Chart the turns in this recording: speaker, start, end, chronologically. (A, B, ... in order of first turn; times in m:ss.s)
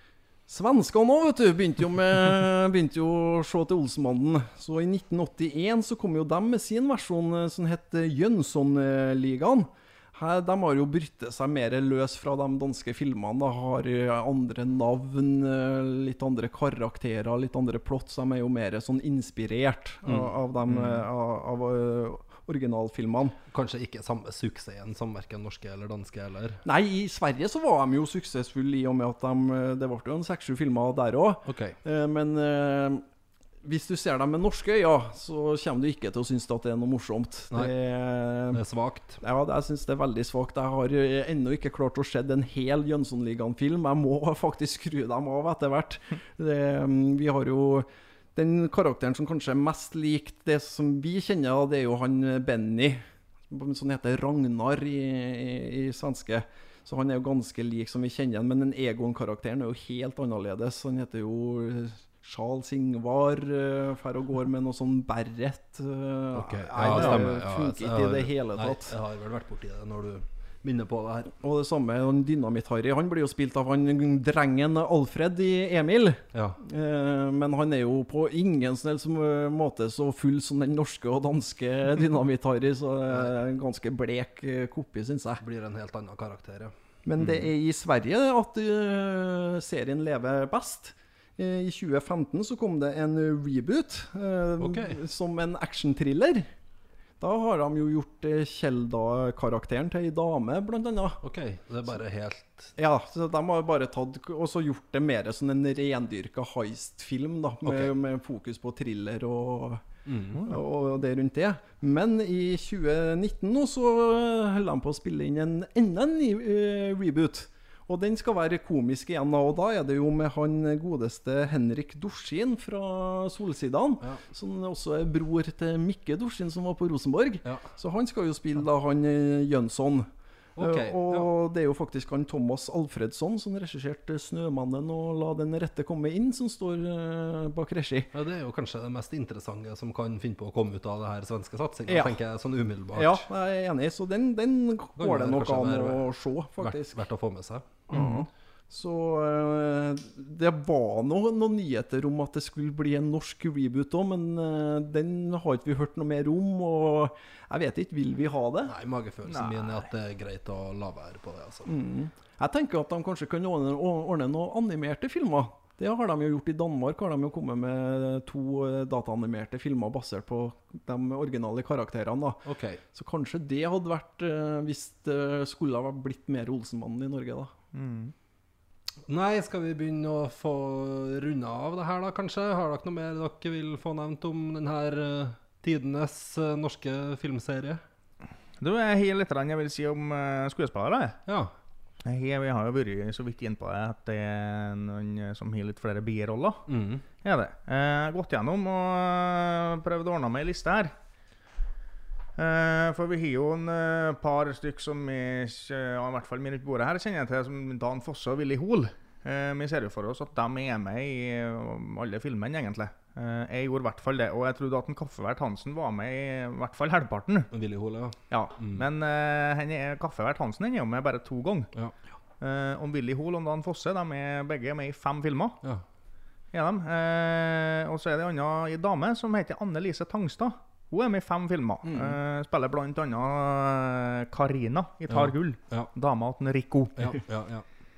0:00.5-0:23.4 A
0:20.0-0:21.0 B
0:23.5-0:26.6 B
0:26.6-0:33.0 A
0:31.5-0:31.8 B
0:33.6-0:38.6 A
0:38.5-0:39.2 B
0:39.2-1:09.0 A
1:06.3-1:11.3 B
1:06.8-1:07.2 C
1:11.4-1:25.4 A
1:16.3-1:16.6 B
1:25.4-1:27.5 B
1:27.0-1:36.5 A
1:34.6-1:35.0 B
1:37.2-1:41.2 A
1:41.2-1:42.7 B
1:42.8-1:49.8 A
1:47.6-1:47.9 B
1:50.1-1:50.4 B
1:50.4-2:18.1 A
2:07.4-2:07.7 B
2:10.6-2:11.3 B
2:18.1-2:23.2 B
2:21.9-2:22.2 A
2:22.9-2:27.0 A
2:25.0-2:27.8 B
2:27.9-2:38.7 A
2:27.9-2:28.2 C
2:38.7-2:41.7 B
2:39.3-2:39.9 C
2:41.7-2:57.5 A
2:52.4-2:52.8 B
2:57.7-2:58.1 C
2:59.1-3:07.8 B
3:08.6-3:11.2 C
3:11.3-3:11.5 B
3:12.0-3:16.6 C
3:16.7-3:17.0 B
3:17.2-3:20.9 C
3:22.4-3:37.5 C
3:37.5-3:38.8 B
3:38.3-3:41.7 C
3:42.4-3:45.6 C
3:46.5-3:57.0 C
3:51.8-3:52.2 A
3:55.1-3:55.9 B
3:57.0-3:57.6 B